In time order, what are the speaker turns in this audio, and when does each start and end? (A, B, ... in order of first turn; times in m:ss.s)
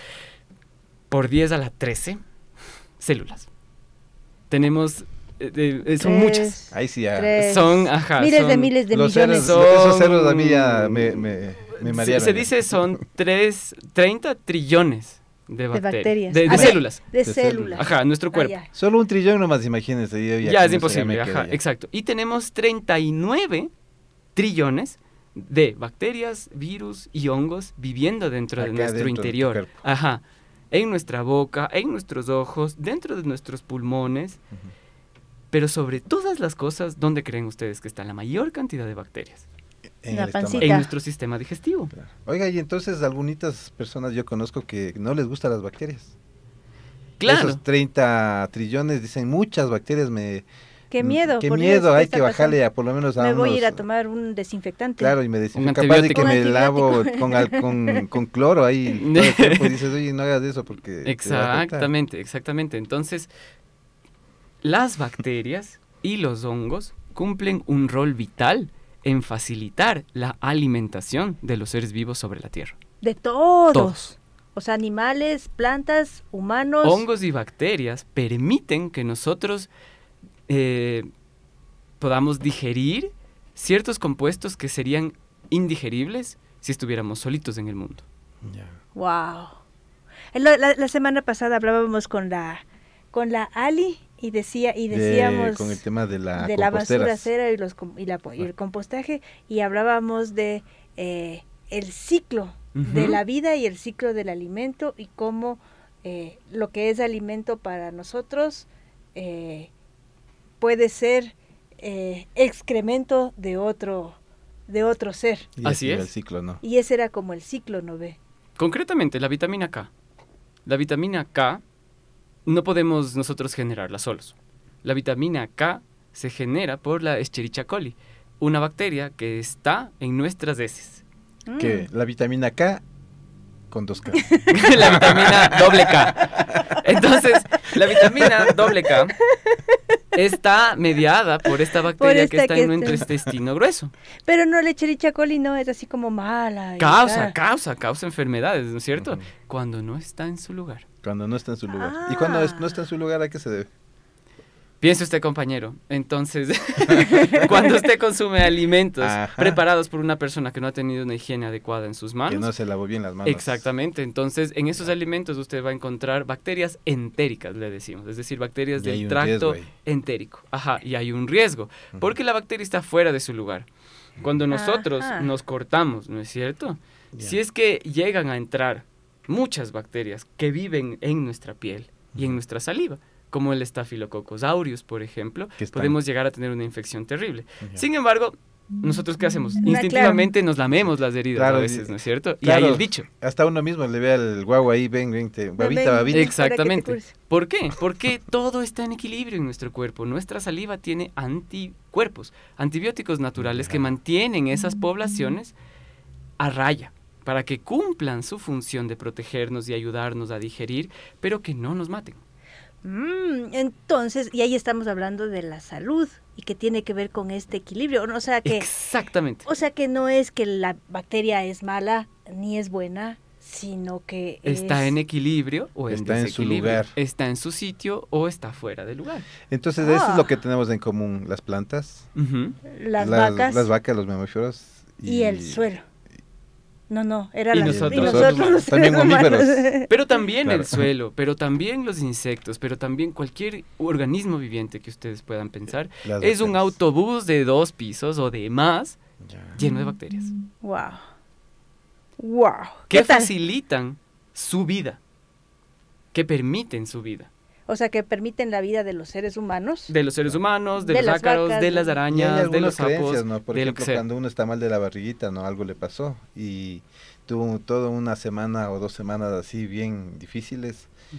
0:01.1-0:02.2 A
0:03.0-0:03.5 A
0:04.5-0:06.6 A
0:06.0-0:09.6 B
0:06.7-0:07.4 C
0:07.4-0:18.6 A
0:08.9-0:12.5 C
0:15.7-0:18.7 B
0:16.5-0:17.8 C
0:18.7-0:21.6 C
0:20.4-0:23.7 A
0:24.4-0:34.4 A
0:28.6-0:29.7 C
0:35.5-0:39.5 A
0:40.0-0:40.9 C
0:40.1-0:40.9 B
0:40.6-0:41.9 A
0:42.0-0:46.1 C
0:47.2-0:47.6 A
0:47.2-0:50.5 C
0:50.9-0:52.6 B
0:51.0-0:53.8 C
0:53.2-0:55.2 B
0:55.0-1:01.9 C
0:55.6-0:56.4 A
0:56.1-0:58.0 B
0:59.0-0:59.8 A
1:01.0-1:03.3 A
1:04.6-1:12.8 A
1:13.0-1:17.0 B
1:13.7-1:14.1 A
1:16.8-1:19.7 A
1:20.5-1:21.1 A
1:22.0-1:28.0 A
1:28.4-1:28.8 C
1:29.0-1:29.6 B
1:30.3-1:35.8 B
1:34.9-1:37.3 C
1:36.4-1:49.7 B
1:42.8-1:43.2 A
1:50.6-1:55.5 B
1:55.6-1:56.6 C
1:55.6-1:56.1 A
1:56.6-1:58.2 B
1:58.6-1:59.9 A
2:00.7-2:01.6 A
2:02.5-2:11.0 A
2:11.5-2:11.9 B
2:11.6-2:12.8 C
2:13.7-2:15.6 C
2:14.2-2:14.7 B
2:14.5-2:19.2 A
2:16.3-2:16.6 C
2:19.4-2:19.8 B
2:20.2-2:23.9 A
2:22.0-2:23.1 B
2:24.3-2:27.4 B
2:26.8-2:30.9 A
2:29.0-2:29.2 C
2:31.0-2:33.7 C
2:31.7-2:32.7 B
2:34.8-2:42.5 A
2:39.0-2:39.6 C
2:42.3-2:43.6 C
2:43.2-2:53.7 A
2:48.8-2:49.7 C
2:54.2-3:13.1 A
2:54.5-2:55.3 B
3:05.6-3:06.0 C
3:09.6-3:10.3 B
3:10.8-3:16.3 C
3:15.6-3:17.1 B
3:16.1-3:25.5 A
3:23.4-3:23.8 C
3:26.4-3:32.2 A
3:32.8-3:38.7 B
3:38.4-3:39.5 A
3:39.4-3:44.9 B
3:44.4-3:49.3 A
3:45.9-3:46.9 C
3:49.5-3:52.1 C
3:49.8-3:50.3 B
3:52.2-3:52.6 A
3:52.7-3:53.7 B
3:53.0-3:55.7 C
3:55.0-3:55.8 B
3:56.9-3:59.9 B
3:57.5-3:58.7 A
3:57.5-3:59.7 C
3:59.9-4:09.0 A
4:00.4-4:00.8 C
4:06.0-4:06.7 C
4:09.2-4:09.6 C
4:09.6-4:10.3 A
4:10.6-4:11.0 B
4:12.2-4:13.3 B
4:12.9-4:15.0 A
4:16.1-4:17.3 A
4:17.7-4:19.9 B
4:19.9-4:24.0 A
4:20.8-4:22.0 B
4:22.1-4:30.9 C